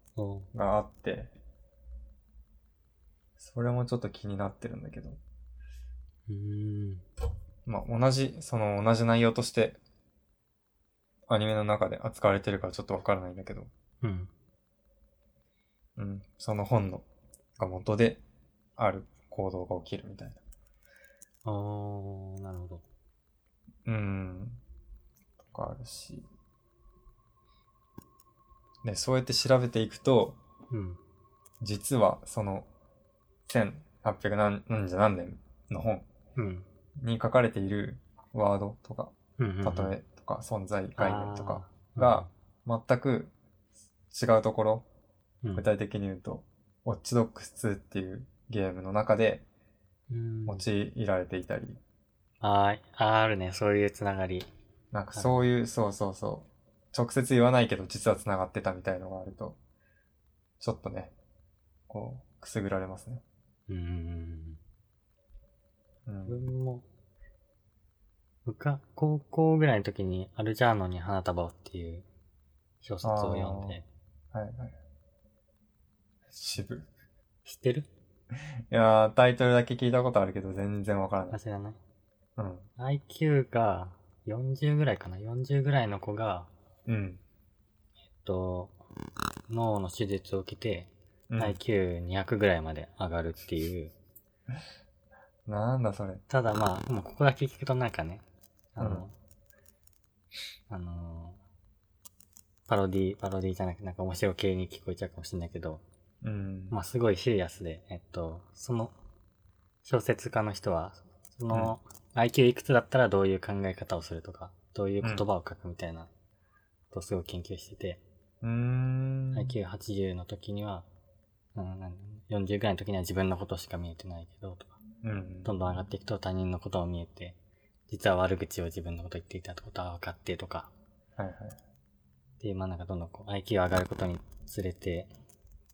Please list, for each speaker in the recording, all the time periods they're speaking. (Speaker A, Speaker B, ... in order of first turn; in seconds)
Speaker A: 0.2-0.5, 6.3-7.0, 14.0-14.3, 21.4-22.8, 30.7-31.0, 36.4-36.7, 39.4-40.0, 41.0-42.3, 50.1-50.6, 52.4-54.5, 55.1-55.5, 63.7-64.6, 66.2-66.9, 68.5-72.1, 72.8-73.8, 77.5-77.9, 81.3-81.8, 82.8-86.5, 88.2-88.8, 89.5-93.9, 96.3-99.1, 100.7-101.4, 102.7-105.8, 106.7-109.0, 109.8-116.1, 116.9-118.0, 119.3-120.9, 121.5-124.8, 125.5-127.4, 127.9-130.7, 132.4-135.1
Speaker B: 0.5-1.3, 3.4-5.2, 7.7-9.8, 11.3-13.7, 16.0-17.1, 17.6-18.2, 18.8-20.4, 23.9-24.6, 25.4-26.3, 28.8-30.4, 31.6-32.7, 33.5-36.1, 37.0-43.3, 44.1-44.9, 45.5-49.5, 50.5-51.8, 54.9-59.6, 60.6-61.1, 61.9-63.2, 66.1-66.4, 73.0-73.8, 74.3-74.8, 76.3-76.9, 78.7-81.4, 82.4-82.7, 86.9-87.2, 91.3-91.6, 95.5-96.2, 98.8-99.1, 106.2-106.8, 118.4-119.5, 125.0-125.5, 131.2-131.6